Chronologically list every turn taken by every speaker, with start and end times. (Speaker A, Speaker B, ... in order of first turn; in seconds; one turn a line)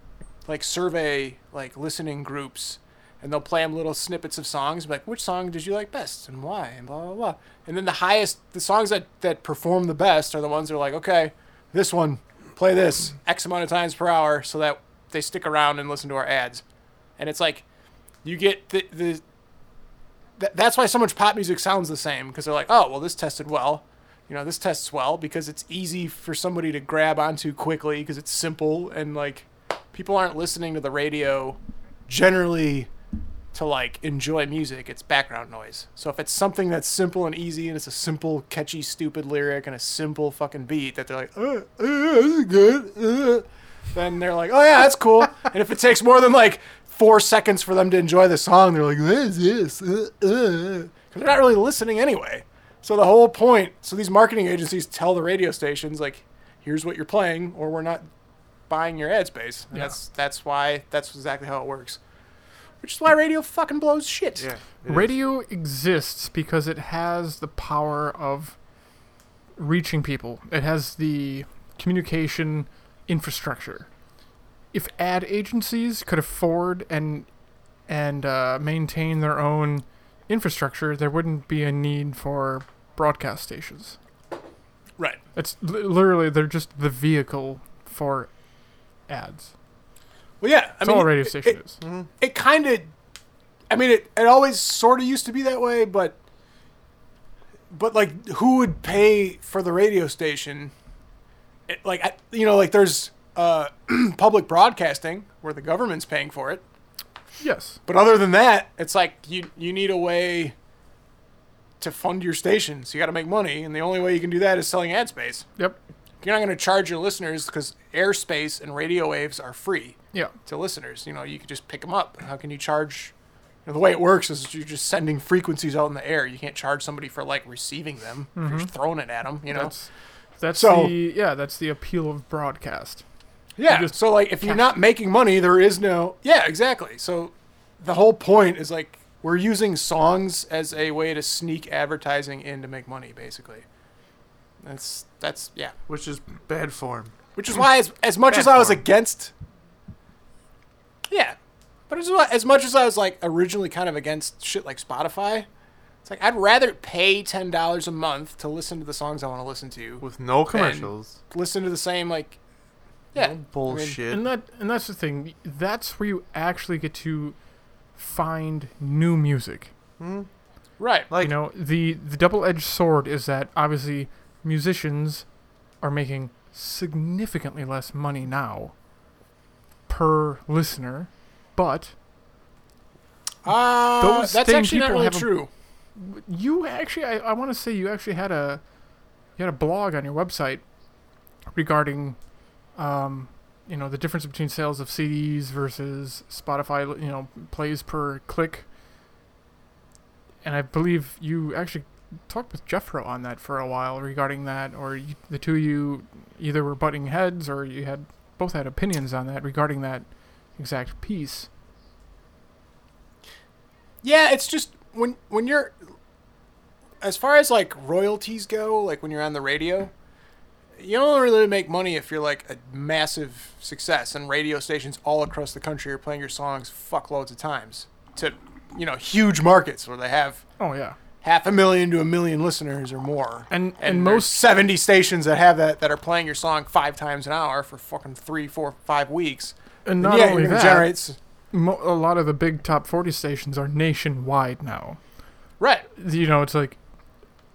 Speaker A: 0.5-16.6
Speaker A: 17.2-17.6
Speaker A: 18.2-19.2
Speaker A: 20.4-32.9
Speaker A: 33.5-58.1
Speaker A: 58.7-62.0
Speaker A: 62.8-64.5
Speaker B: 64.4-65.2
Speaker C: 64.9-68.6
Speaker C: 69.6-73.9
Speaker C: 74.7-77.3
Speaker C: 77.9-84.0
Speaker C: 85.4-88.3
Speaker C: 89.1-89.5
Speaker A: 90.4-91.6
Speaker C: 90.8-91.8
Speaker B: 91.8-92.1
Speaker A: 92.2-92.9
Speaker A: 93.7-96.2
Speaker A: 97.7-100.7
Speaker A: 101.7-106.6
Speaker C: 107.4-107.8
Speaker A: 107.9-110.5
Speaker A: 111.8-115.5
Speaker A: 116.2-123.1
Speaker A: 123.7-129.8
Speaker C: 128.4-128.7
Speaker C: 129.5-129.9
Speaker C: 130.4-133.0
Speaker A: 130.5-130.9
Speaker A: 133.6-143.7
Speaker C: 133.7-134.7
Speaker A: 144.6-145.7
Speaker B: 145.9-147.2
Speaker A: 147.4-149.3
Speaker B: 148.3-148.8
Speaker A: 151.1-151.4
Speaker A: 151.9-155.5
Speaker A: 156.1-162.4
Speaker B: 160.0-161.2
Speaker A: 163.1-164.0
Speaker B: 163.1-164.2
Speaker C: 164.1-167.4
Speaker C: 167.9-169.7
Speaker B: 170.0-170.3
Speaker A: 170.8-171.1
Speaker B: 171.1-171.4
Speaker C: 171.2-175.3
Speaker C: 175.8-178.7
Speaker C: 179.9-181.9
Speaker A: 183.4-185.5
Speaker C: 184.0-185.3
Speaker C: 186.0-188.6
Speaker C: 189.4-190.6
Speaker C: 191.5-192.2
Speaker C: 192.8-198.7
Speaker C: 200.4-210.1
Speaker C: 210.6-211.5
Speaker A: 214.0-215.8
Speaker A: 217.0-219.9
Speaker A: 220.8-230.4
Speaker C: 230.6-231.0
Speaker A: 231.2-241.2
Speaker C: 233.5-234.4
Speaker C: 239.8-240.9
Speaker C: 241.5-245.0
Speaker A: 245.6-245.9
Speaker C: 245.9-246.8